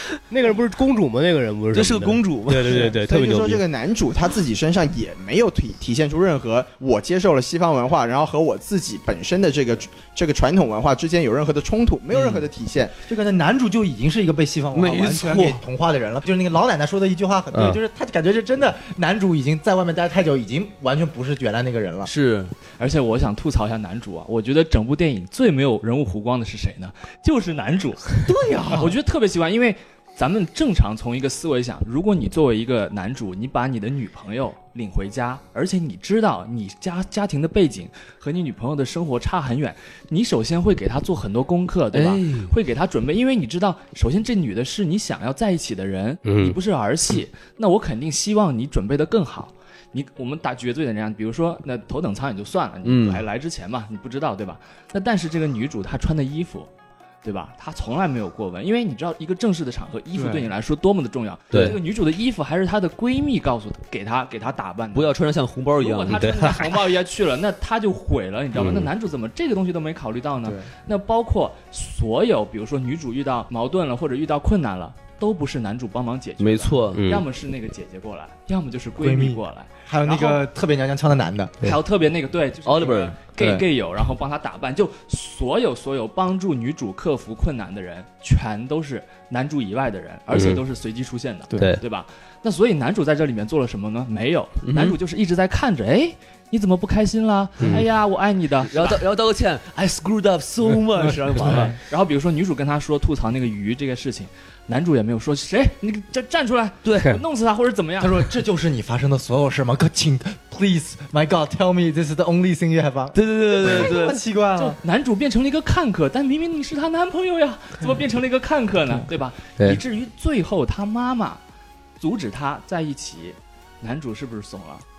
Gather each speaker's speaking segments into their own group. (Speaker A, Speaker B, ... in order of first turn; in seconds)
Speaker A: 0.3-3.6, 17.5-17.8, 46.2-46.6, 66.1-66.6, 77.0-77.2, 90.3-90.6
Speaker B: 1.7-2.9, 12.1-12.4, 14.7-15.6, 22.0-22.5, 41.9-42.5, 52.8-53.2, 61.5-61.8, 64.9-66.5, 68.5-68.9, 76.4-77.2, 82.7-83.2, 94.6-95.0, 98.7-101.7, 106.8-107.2, 113.1-114.2
Speaker C: 3.0-13.0
Speaker D: 13.1-22.1, 28.3-29.0, 60.1-60.5, 79.0-81.6, 83.4-83.7, 108.0-114.8
Speaker E: 22.8-56.7, 57.2-65.2, 65.8-80.4, 81.6-99.0, 101.4-108.2, 114.6-121.4, 122.0-124.8